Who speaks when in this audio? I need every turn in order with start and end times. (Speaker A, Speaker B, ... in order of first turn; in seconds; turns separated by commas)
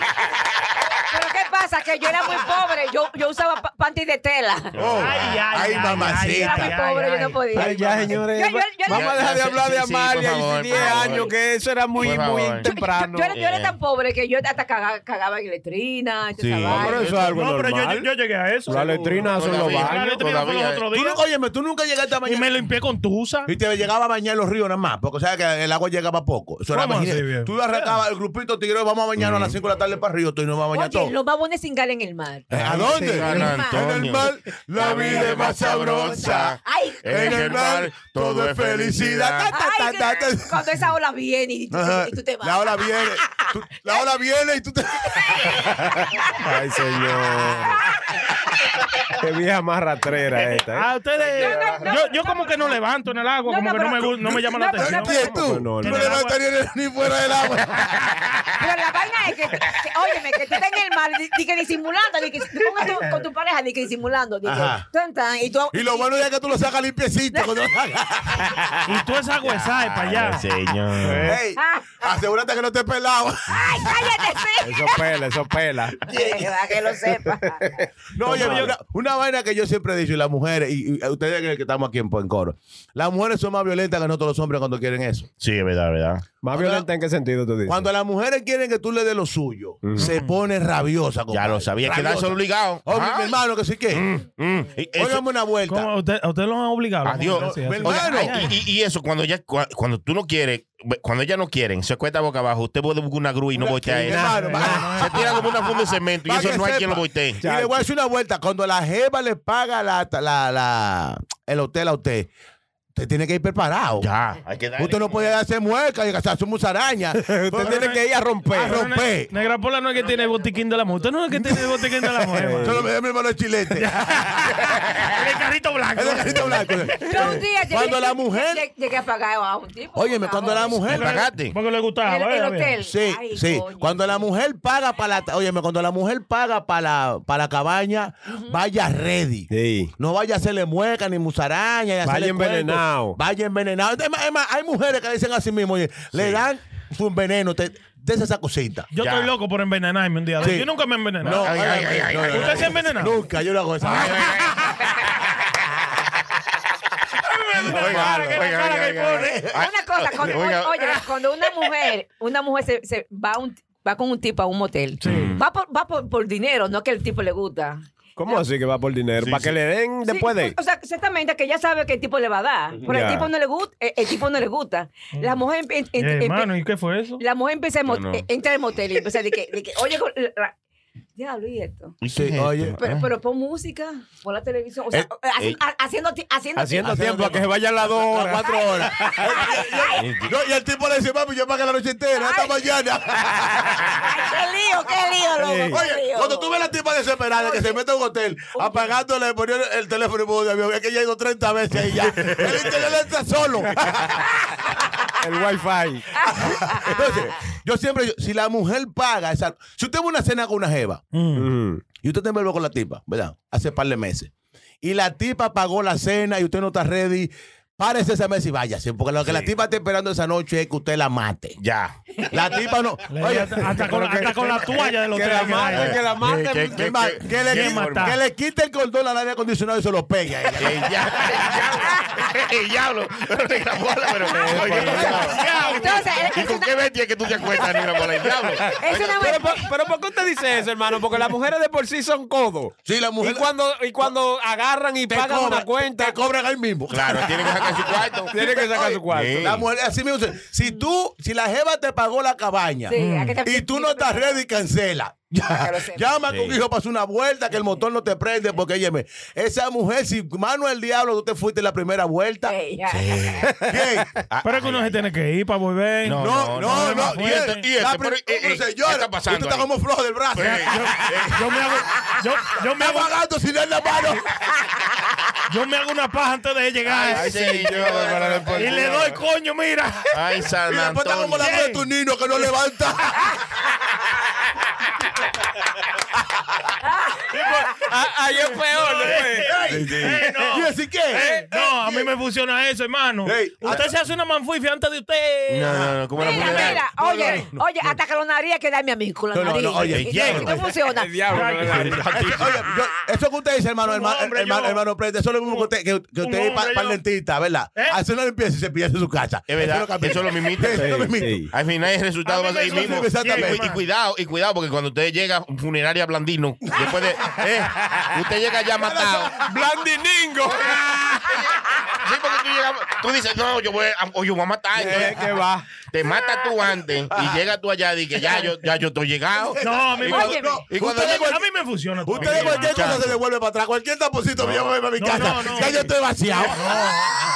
Speaker A: 1.1-4.8, Speaker B: 4.7-5.3, Speaker C: 4.8-6.8, Speaker D: 5.0-8.2, Speaker A: 6.1-9.1, Speaker E: 7.5-13.3, Speaker B: 8.9-11.3, Speaker A: 10.7-11.3, Speaker B: 11.9-12.7, Speaker A: 12.0-17.1, Speaker B: 13.3-13.7, Speaker B: 16.4-17.4, Speaker E: 16.7-18.1, Speaker D: 17.3-21.2, Speaker E: 18.7-20.2, Speaker B: 18.8-20.9, Speaker C: 20.9-22.5, Speaker D: 22.2-23.5, Speaker C: 23.5-31.1, Speaker D: 26.7-28.0, Speaker B: 29.2-29.6, Speaker A: 30.7-32.5, Speaker C: 32.5-36.6, Speaker B: 32.5-39.5, Speaker E: 32.6-33.3, Speaker A: 33.2-33.8, Speaker A: 34.8-37.6, Speaker C: 37.1-40.7, Speaker A: 39.5-44.0, Speaker C: 41.7-46.2, Speaker E: 46.4-47.8, Speaker E: 49.2-50.9, Speaker D: 50.4-56.4, Speaker A: 51.3-52.8, Speaker A: 53.5-55.3, Speaker C: 54.8-58.2, Speaker E: 55.0-56.1, Speaker A: 58.6-66.1, Speaker C: 64.4-64.8, Speaker C: 65.7-68.7, Speaker D: 68.8-70.5, Speaker B: 69.4-71.3, Speaker E: 71.0-71.4, Speaker C: 71.2-74.1, Speaker A: 71.5-72.1, Speaker A: 73.5-75.0, Speaker E: 74.6-76.5, Speaker A: 76.0-77.7, Speaker C: 78.1-85.3, Speaker E: 78.2-78.7, Speaker B: 85.4-86.2, Speaker E: 86.4-87.9, Speaker C: 86.5-86.9, Speaker C: 87.7-94.0, Speaker E: 89.8-90.1, Speaker D: 90.0-90.3, Speaker B: 91.3-93.3, Speaker B: 93.9-95.2, Speaker C: 94.9-95.9, Speaker D: 95.7-98.6, Speaker B: 97.0-107.4, Speaker C: 97.3-98.5, Speaker C: 103.5-112.3, Speaker E: 104.1-105.3, Speaker D: 104.2-105.3, Speaker E: 107.4-107.8, Speaker C: 112.9-114.1, Speaker B: 114.0-115.3, Speaker C: 114.8-118.0, Speaker E: 117.2-118.8, Speaker D: 117.7-118.0, Speaker C: 118.5-119.3, Speaker D: 118.5-122.8, Speaker E: 122.2-122.8, Speaker C: 122.6-124.6, Speaker D: 123.7-126.8, Speaker C: 125.9-128.6, Speaker A: 127.1-130.9, Speaker C: 129.9-131.1, Speaker B: 130.8-131.6, Speaker D: 130.9-132.8, Speaker A: 132.0-134.1, Speaker C: 132.8-148.9, Speaker A: 138.3-138.6, Speaker E: 139.5-139.9, Speaker E: 142.0-143.2, Speaker D: 148.9-151.5, Speaker B: 148.9-149.3, Speaker C: 150.4-150.7, Speaker C: 151.2-154.8, Speaker B: 151.2-152.8, Speaker D: 152.2-153.2, Speaker B: 153.9-154.8, Speaker D: 157.2-159.4, Speaker B: 157.6-161.1, Speaker E: 157.7-158.4, Speaker A: 159.5-168.4, Speaker D: 165.0-165.3, Speaker B: 165.0-165.4, Speaker E: 168.2-170.6, Speaker B: 169.2-169.6, Speaker A: 170.0-176.5, Speaker E: 172.8-173.3, Speaker D: 176.0-177.2, Speaker A: 177.2-180.5, Speaker B: 177.9-178.2, Speaker A: 181.2-181.9, Speaker B: 182.0-183.1, Speaker C: 182.1-182.8, Speaker A: 182.8-187.4, Speaker E: 186.6-189.4, Speaker C: 186.8-187.4, Speaker C: 188.1-193.9, Speaker A: 188.9-190.1, Speaker B: 190.0-190.3, Speaker A: 192.1-192.6, Speaker A: 193.8-196.6, Speaker E: 195.4-195.8, Speaker C: 195.7-204.2, Speaker A: 197.3-197.8, Speaker A: 198.5-198.9, Speaker B: 202.1-202.8, Speaker E: 205.2-206.1, Speaker A: 206.1-207.3, Speaker C: 206.3-211.0, Speaker D: 211.1-211.5, Speaker E: 211.3-211.8, Speaker C: 212.0-214.3, Speaker C: 214.8-221.6, Speaker B: 221.6-221.9, Speaker C: 222.3-224.5, Speaker D: 223.1-226.0, Speaker E: 223.8-226.8, Speaker B: 225.9-228.2, Speaker C: 226.7-231.5, Speaker D: 227.5-228.2, Speaker B: 230.6-239.4, Speaker E: 234.2-235.4, Speaker D: 234.7-236.1, Speaker A: 235.3-236.7, Speaker A: 238.8-239.7, Speaker E: 239.0-246.2, Speaker C: 242.8-244.1, Speaker C: 245.1-262.5, Speaker B: 246.9-248.5, Speaker E: 248.3-249.5, Speaker B: 249.1-249.6, Speaker A: 252.9-254.4, Speaker D: 253.0-253.4, Speaker A: 255.5-256.1, Speaker B: 256.3-256.6, Speaker A: 262.4-263.4, Speaker B: 262.9-265.0, Speaker C: 263.6-264.1, Speaker D: 264.4-267.6, Speaker B: 266.0-269.7, Speaker C: 266.2-271.3, Speaker B: 270.3-271.4, Speaker D: 270.4-273.1, Speaker C: 272.7-274.2, Speaker D: 275.5-277.3, Speaker B: 276.8-278.9, Speaker E: 277.1-279.2, Speaker D: 278.5-280.1, Speaker B: 280.1-281.6, Speaker C: 280.7-283.2, Speaker D: 281.4-281.9, Speaker A: 286.8-287.4, Speaker E: 287.3-290.3, Speaker D: 288.5-296.6, Speaker C: 289.4-292.1, Speaker E: 291.1-291.4, Speaker C: 293.2-293.9, Speaker B: 295.5-296.8, Speaker C: 295.7-297.9, Speaker A: 296.2-301.7, Speaker C: 299.3-300.6, Speaker B: 299.9-300.5, Speaker E: 300.8-302.6, Speaker D: 301.3-302.0, Speaker C: 302.0-311.4, Speaker D: 303.8-304.8, Speaker D: 306.2-307.0, Speaker B: 309.5-319.4, Speaker E: 310.8-311.5, Speaker D: 312.2-313.8, Speaker C: 312.7-313.6, Speaker C: 318.7-319.4, Speaker E: 319.4-321.1, Speaker B: 321.3-325.3, Speaker E: 324.7-325.7, Speaker B: 325.8-331.4, Speaker C: 327.1-327.4, Speaker C: 329.4-331.4, Speaker D: 329.6-332.8, Speaker A: 330.1-330.6, Speaker C: 332.1-336.9, Speaker B: 332.1-333.2, Speaker B: 334.4-334.7, Speaker D: 335.0-335.9, Speaker D: 336.4-337.1